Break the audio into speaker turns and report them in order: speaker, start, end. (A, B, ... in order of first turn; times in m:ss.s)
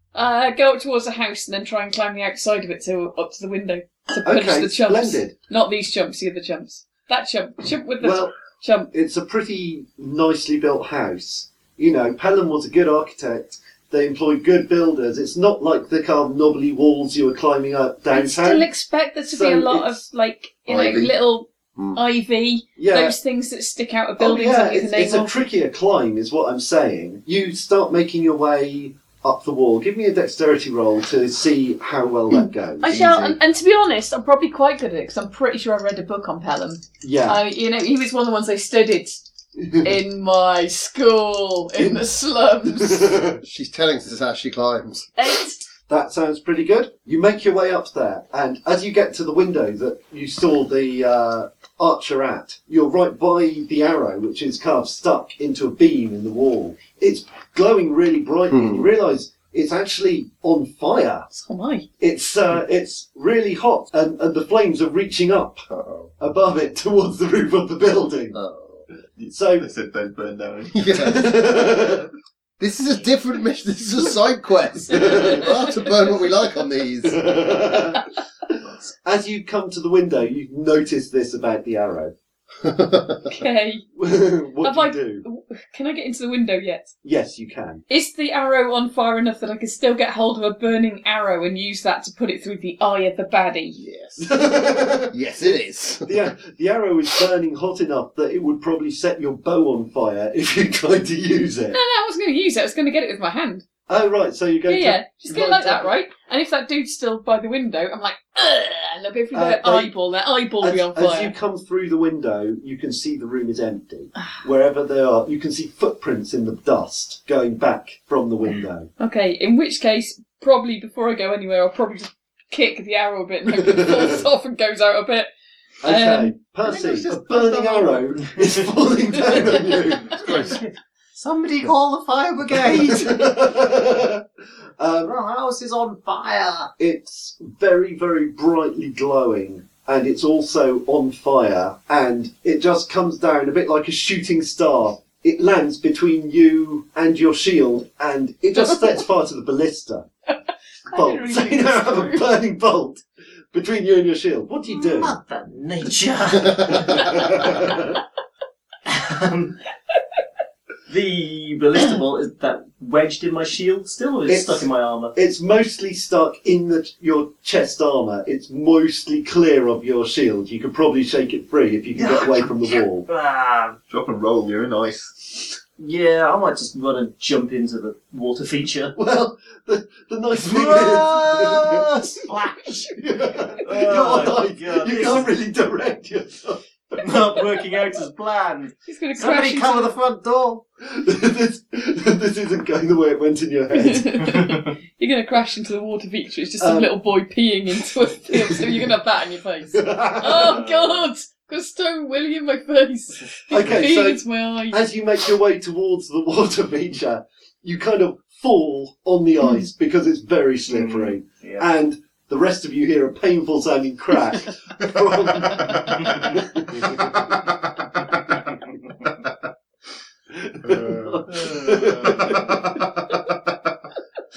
0:00.1-0:08.9 A
0:04.2-0:05.3 B
0:08.0-0:08.3 B
0:08.9-0:18.7 B
0:18.1-0:25.4 A
0:19.3-0:20.0 B
0:20.7-0:21.1 C
0:22.8-0:23.2 B
0:24.2-0:33.1 B
0:32.8-0:39.2 A
0:32.9-0:33.3 C
0:37.0-0:37.4 B
0:39.6-0:39.9 B
0:39.8-0:43.1 A
0:41.8-0:42.1 B
0:42.7-0:43.4 B
0:43.4-0:45.1 C
0:45.2-0:45.6 A
0:45.9-1:01.3 B
0:58.5-0:58.9 C
1:01.3-1:01.9 A
1:02.0-1:05.6 B
1:05.7-1:06.1 C
1:06.2-1:08.4 B
1:08.3-1:08.8 C
1:09.2-1:10.9 D
1:09.3-1:09.7 B
1:10.7-1:11.5 C
1:10.9-1:12.1 B
1:12.6-1:17.3 C
1:14.9-1:15.5 B
1:15.1-1:15.5 A
1:17.0-1:18.0 B
1:19.0-1:22.1 B
1:22.6-1:23.3 C
1:23.3-1:23.9 A
1:24.0-1:25.2 B
1:24.6-1:26.9 A
1:27.0-1:27.8 B
1:27.9-1:33.8 A
1:33.8-1:34.4 C
1:34.2-1:35.2 B
1:35.1-1:36.2 C
1:36.0-1:41.8 B
1:41.7-1:43.6 A
1:43.9-1:45.9 B
1:44.7-1:51.3 A
1:49.3-1:49.9 B
1:50.6-1:58.9 B
1:59.0-2:05.3 A
2:03.6-2:04.1 B
2:05.8-2:10.3 B
2:05.8-2:06.4 A
2:06.7-2:08.0 E
2:09.5-2:13.5 E
2:12.6-2:14.2 B
2:14.8-2:15.1 B
2:15.0-2:16.7 E
2:16.8-2:30.1 B
2:30.9-2:35.2 B
2:30.9-2:32.3 A
2:34.7-2:37.7 E
2:37.1-2:37.9 B
2:38.9-2:39.6 E
2:40.9-2:45.1 E
2:44.3-2:53.1 B
2:52.0-2:53.8 E
2:53.9-2:55.5 D
2:55.8-2:58.9 E
2:59.0-3:01.9 B
3:00.4-3:05.3 E
3:02.9-3:07.1 B
3:07.0-3:10.6 E
3:08.9-3:09.9 A
3:10.8-3:14.2 B
3:13.7-3:24.8 A
3:16.6-3:16.9 B
3:18.3-3:18.8 B
3:19.7-3:20.6 B
3:20.4-3:21.1 E
3:23.5-3:37.2 B
3:30.7-3:31.6 E
3:40.3-3:42.7 B
3:40.6-3:42.8 D
3:41.5-3:42.3 E